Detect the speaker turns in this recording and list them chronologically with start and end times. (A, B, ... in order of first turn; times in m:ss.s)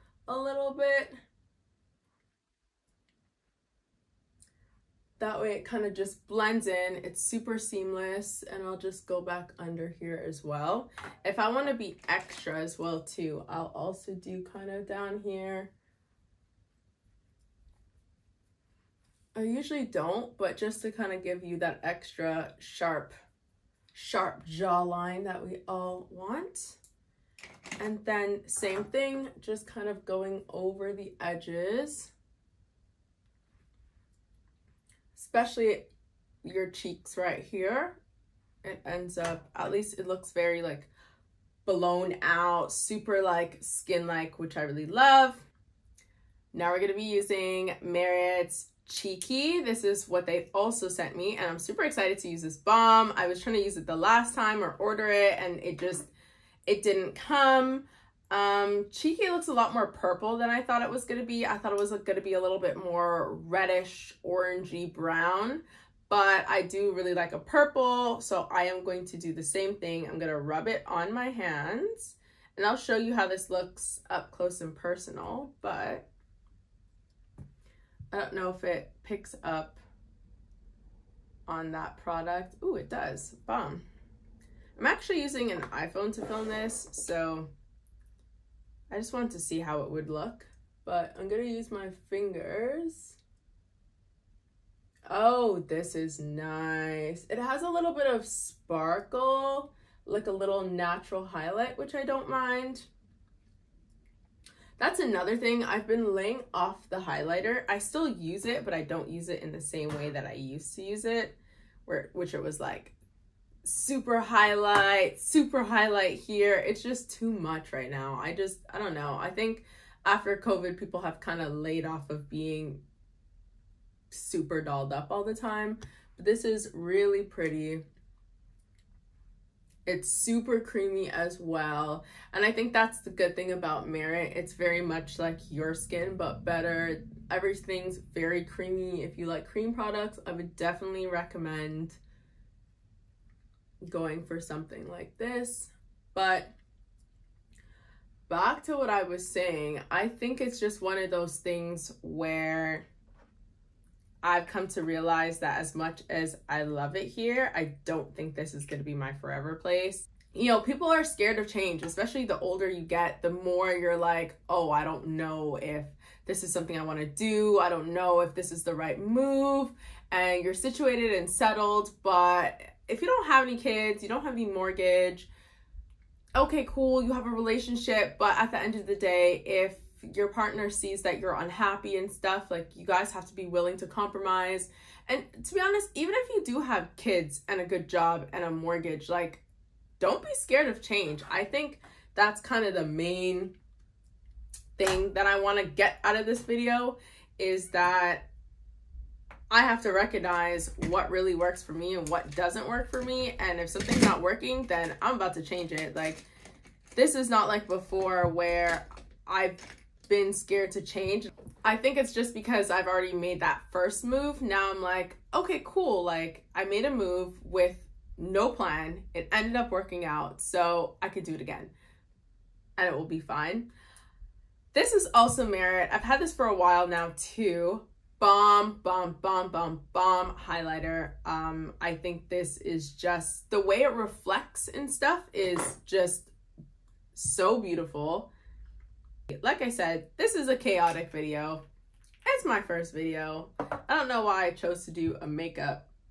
0:00.3-0:01.1 A
0:05.2-0:15.7 A
0:19.3-0:23.1 A
0:23.9-0:26.8 A
0:27.8-0:32.1 A
0:35.1-0:35.9 A
0:36.4-0:38.0 A
0:38.6-0:40.9 A
0:41.6-0:45.4 A
0:46.5-0:56.1 A
0:56.7-1:16.1 A
1:18.1-1:19.8 A
1:21.5-1:23.8 A
1:24.8-1:27.5 A
1:28.9-1:33.2 A
1:35.1-1:42.9 A
1:44.8-1:52.9 A
1:53.6-2:02.8 A
2:04.1-2:07.8 A
2:09.8-2:22.0 A
2:23.9-2:26.5 A
2:28.3-2:32.8 A
2:34.2-2:55.3 A
2:56.4-3:09.4 A
3:10.0-3:13.5 A
3:14.8-3:18.3 A
3:19.5-3:26.2 A
3:26.9-3:41.7 A
3:42.8-3:43.7 A
3:44.7-3:56.3 A
3:57.1-3:58.3 A
3:59.4-4:01.6 A
4:02.2-4:05.9 A